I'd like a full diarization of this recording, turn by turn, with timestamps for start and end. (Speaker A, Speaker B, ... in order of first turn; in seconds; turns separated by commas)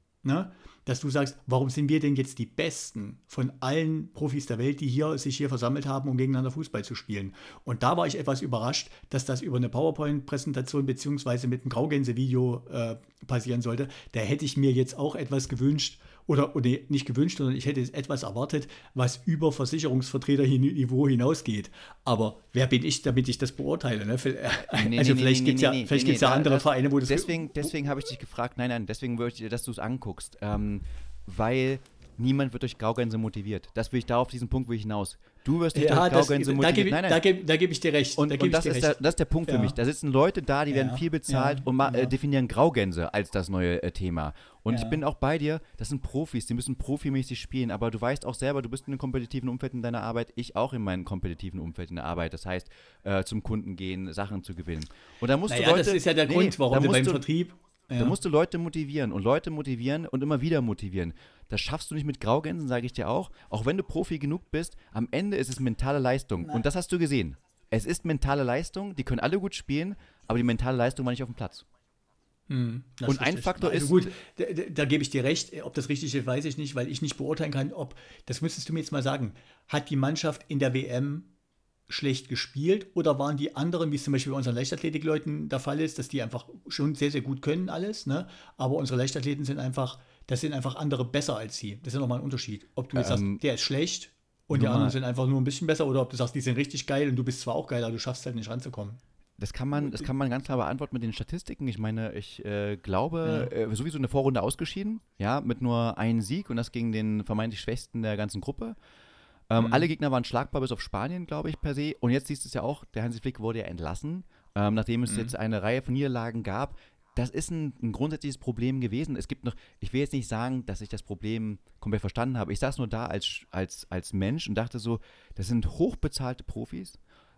Speaker A: 0.2-27.7, Speaker B: 24.7-37.2, Speaker A: 35.7-39.8, Speaker B: 38.2-57.2, Speaker A: 40.7-42.1, Speaker A: 44.7-45.0, Speaker A: 55.5-58.2, Speaker B: 58.0-71.6, Speaker A: 72.5-81.3, Speaker B: 73.0-74.1, Speaker A: 81.9-99.0, Speaker B: 92.9-93.4, Speaker B: 94.5-95.0, Speaker B: 99.4-108.8, Speaker A: 103.2-103.5, Speaker B: 109.5-127.0, Speaker A: 109.6-109.9, Speaker A: 115.0-115.3